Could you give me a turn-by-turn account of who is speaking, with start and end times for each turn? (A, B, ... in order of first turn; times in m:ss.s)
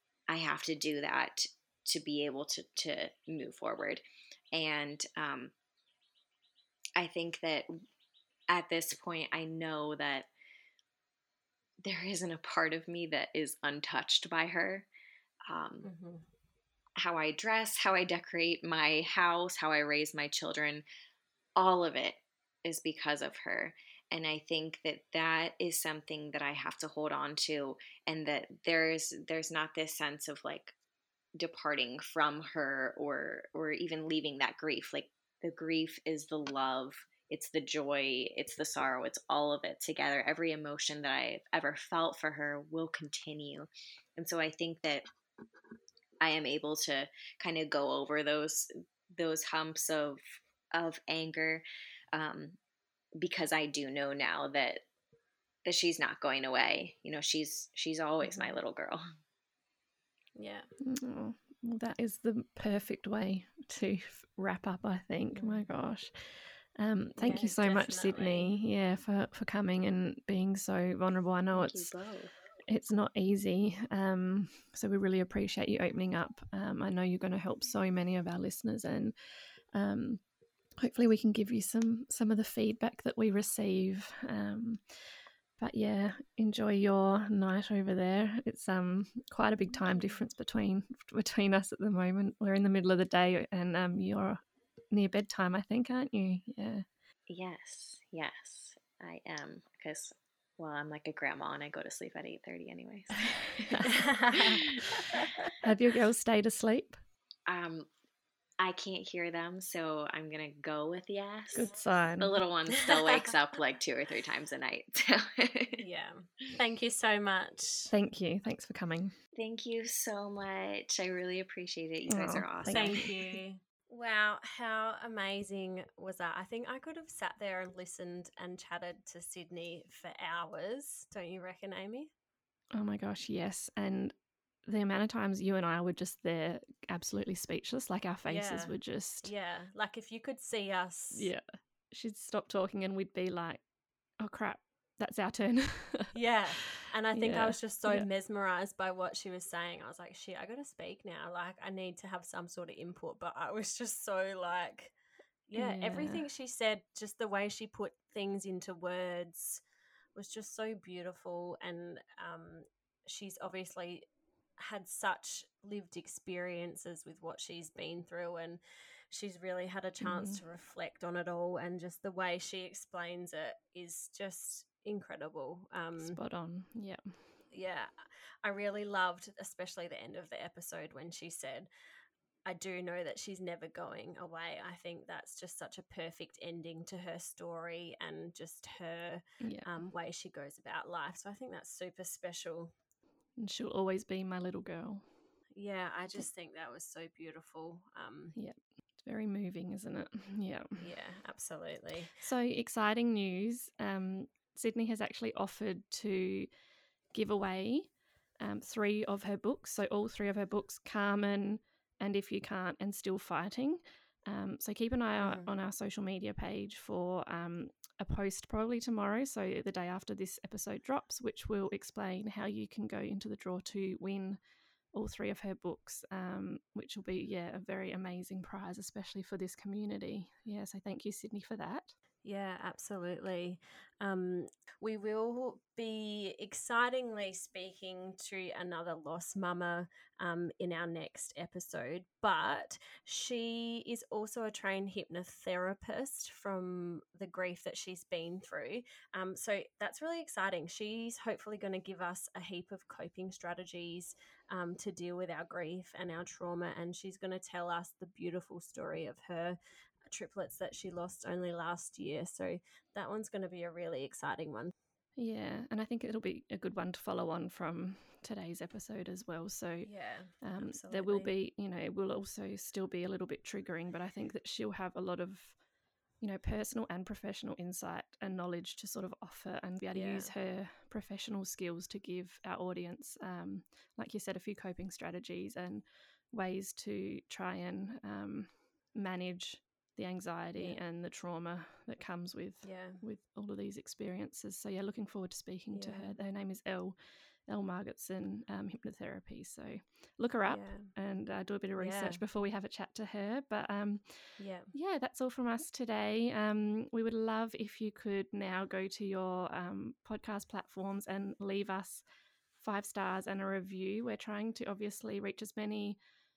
0:00.3-0:05.5 A
0:07.0-0:07.7 A
0:08.5-0:10.3 A
0:11.8-0:14.9 A
0:15.5-0:15.9 A
0:15.8-0:16.2 B
0:17.0-0:20.8 A
0:21.6-0:30.7 A
0:31.4-0:45.0 A
0:46.2-0:52.6 A
0:53.2-0:54.8 A
0:55.6-0:59.0 A
0:58.2-0:58.6 B
1:00.4-1:00.7 B
1:00.8-1:11.9 C
1:05.3-1:05.7 B
1:07.2-1:08.5 B
1:11.5-1:12.3 A
1:12.7-1:19.1 C
1:19.7-1:20.2 C
1:20.8-1:36.8 C
1:29.7-1:30.2 B
1:37.3-1:44.7 A
1:43.8-1:44.6 B
1:45.6-1:47.0 C
1:47.5-1:47.9 A
1:48.6-1:55.8 A
1:51.5-1:52.4 C
1:55.8-1:57.9 B
1:57.9-1:59.1 C
1:59.4-2:03.0 A
2:02.1-2:03.1 C
2:02.7-2:12.1 B
2:12.7-2:19.3 C
2:18.2-2:21.3 B
2:21.1-2:26.1 C
2:26.1-2:35.0 B
2:27.1-2:28.1 C
2:35.5-2:39.6 B
2:35.5-2:36.3 C
2:40.1-2:44.0 B
2:44.6-2:56.2 B
2:50.0-2:50.4 C
2:56.0-2:57.3 C
2:57.5-3:01.7 B
3:02.4-3:12.7 B
3:09.4-3:09.8 C
3:13.4-3:15.1 C
3:15.5-3:18.4 B
3:18.3-3:20.9 C
3:20.8-3:22.2 B
3:22.2-3:26.5 C
3:27.1-3:44.4 C
3:35.2-3:35.5 B
3:44.9-3:52.0 C
3:52.2-4:19.6 B
4:20.1-4:24.7 B
4:25.2-4:35.6 C
4:29.8-4:31.3 B
4:36.2-5:12.0 C
4:39.9-4:40.3 B
4:50.6-4:50.8 B
4:52.6-4:53.0 B
4:55.7-4:56.2 B
5:00.4-5:00.9 B
5:01.8-5:02.2 B
5:04.4-5:04.7 B
5:12.6-5:16.0 C